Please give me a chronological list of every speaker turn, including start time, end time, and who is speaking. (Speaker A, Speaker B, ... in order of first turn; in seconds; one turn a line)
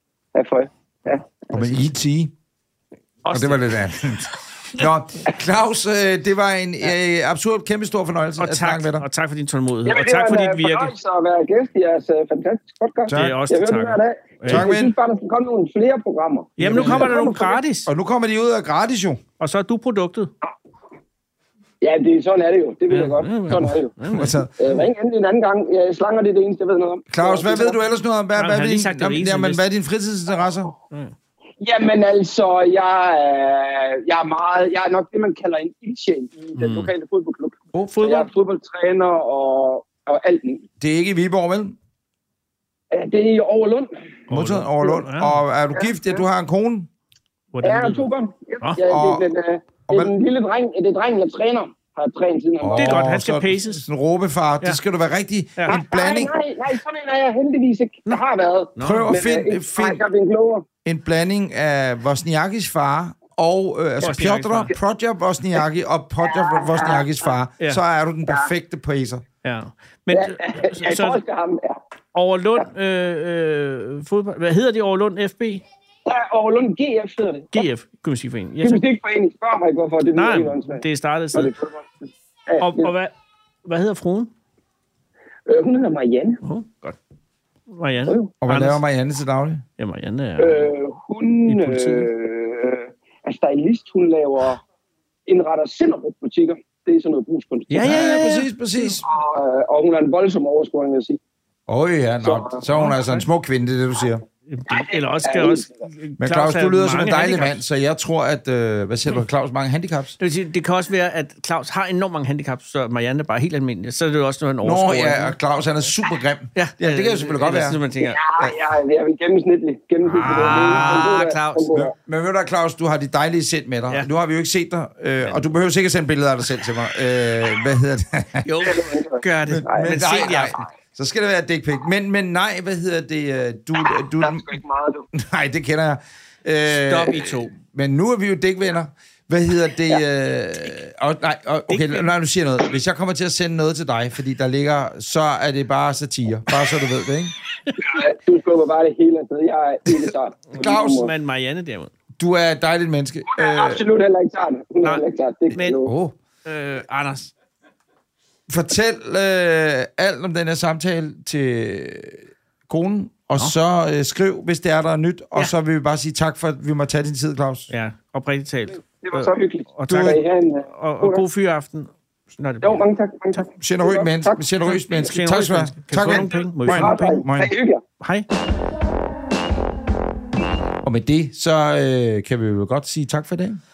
Speaker A: 0.3-1.5
Speaker B: 1.5-2.3
Speaker C: 3.2-3.6
Speaker B: 3.3-9.1
Speaker C: 8.4-10.9
Speaker A: 9.8-17.6
Speaker B: 13.1-13.4
Speaker C: 13.1-14.7
Speaker B: 14.5-14.9
Speaker C: 16.6-17.9
Speaker B: 16.6-17.3
Speaker B: 17.9-19.2
Speaker C: 19.4-20.3
Speaker A: 21.8-23.9
Speaker C: 22.9-24.4
Speaker B: 24.1-24.5
Speaker A: 24.6-27.8
Speaker B: 27.1-30.7
Speaker C: 28.3-29.6
Speaker C: 30.9-31.1
Speaker A: 31.6-40.6
Speaker C: 36.5-36.9
Speaker C: 37.7-38.3
Speaker B: 40.8-41.7
Speaker A: 42.9-43.9
Speaker C: 44.3-45.4
Speaker B: 44.3-46.9
Speaker A: 45.7-46.2
Speaker C: 47.5-48.1
Speaker A: 47.6-53.0
Speaker B: 48.8-49.2
Speaker B: 52.6-56.3
Speaker C: 52.8-53.9
Speaker A: 55.7-60.6
Speaker C: 58.8-59.1
Speaker B: 58.8-60.0
Speaker B: 60.8-69.2
Speaker C: 64.0-64.7
Speaker A: 66.2-67.1
Speaker C: 69.4-71.2
Speaker A: 70.1-71.8
Speaker C: 72.1-75.6
Speaker A: 76.0-77.7
Speaker C: 77.5-78.8
Speaker A: 78.6-82.9
Speaker C: 80.1-81.5
Speaker C: 82.6-83.1
Speaker C: 83.6-84.3
Speaker A: 85.5-86.4
Speaker C: 86.4-87.0
Speaker C: 87.7-88.8
Speaker A: 88.0-88.3
Speaker B: 88.4-89.6
Speaker C: 89.8-90.6
Speaker A: 90.4-94.6
Speaker C: 91.5-92.1
Speaker A: 95.3-97.8
Speaker C: 97.7-99.0
Speaker B: 97.8-99.0
Speaker A: 99.0-101.2
Speaker B: 101.7-104.2
Speaker A: 102.2-102.6
Speaker C: 102.7-103.2
Speaker C: 104.5-107.6
Speaker A: 104.7-105.7
Speaker B: 106.2-110.2
Speaker C: 110.2-115.3
Speaker B: 114.6-117.8
Speaker C: 116.5-118.2
Speaker A: 118.0-121.9
Speaker C: 120.1-121.7
Speaker B: 120.2-120.9
Speaker B: 121.7-128.4
Speaker C: 128.4-130.6
Speaker A: 128.6-130.2
Speaker B: 129.5-134.6
Speaker A: 134.2-135.1
Speaker B: 135.1-147.3
Speaker C: 136.6-137.5
Speaker C: 141.7-142.1
Speaker A: 147.8-151.1
Speaker C: 150.5-151.9
Speaker B: 152.2-153.8
Speaker A: 153.3-155.9
Speaker C: 154.8-155.8
Speaker B: 155.8-156.1
Speaker C: 156.4-157.3
Speaker B: 158.5-167.7
Speaker C: 167.7-173.4
Speaker A: 168.9-171.2
Speaker A: 172.6-174.4
Speaker B: 173.6-177.5
Speaker C: 174.7-177.2
Speaker A: 176.6-177.8
Speaker C: 178.0-178.3
Speaker B: 180.8-183.6